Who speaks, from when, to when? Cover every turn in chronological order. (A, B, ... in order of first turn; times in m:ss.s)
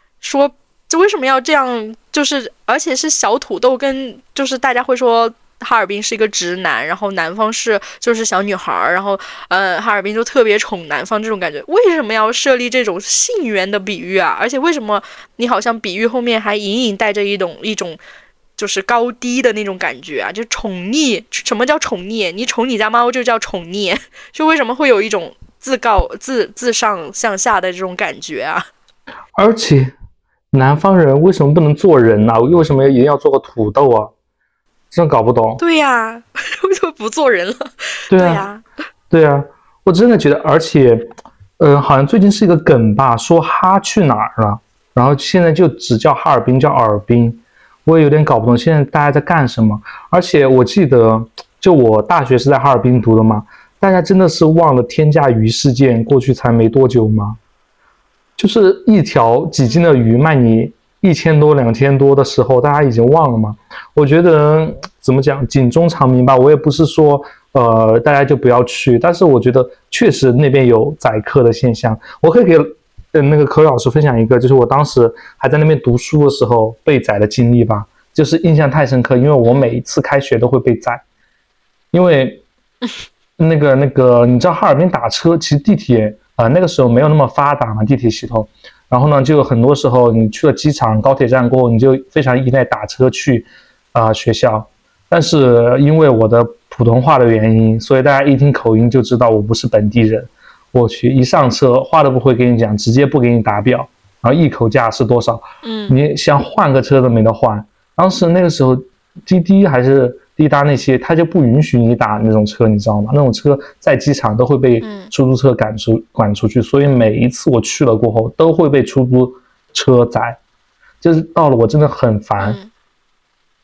0:00.2-0:18.0 A
0:18.6-0:28.7 A
0:29.3-0:29.9 B
0:30.5-0:34.1 B
0:34.9-0:35.6 B
0:35.6-0:38.6 A
0:38.1-0:38.4 B
0:39.1-0:57.4 B
0:58.4-1:21.0 B
1:19.4-1:19.8 A
1:21.9-1:22.4 B
1:23.4-2:00.4 B
1:45.6-1:46.0 A
1:54.8-1:55.1 A
2:01.0-2:02.6 B
2:02.4-2:02.7 A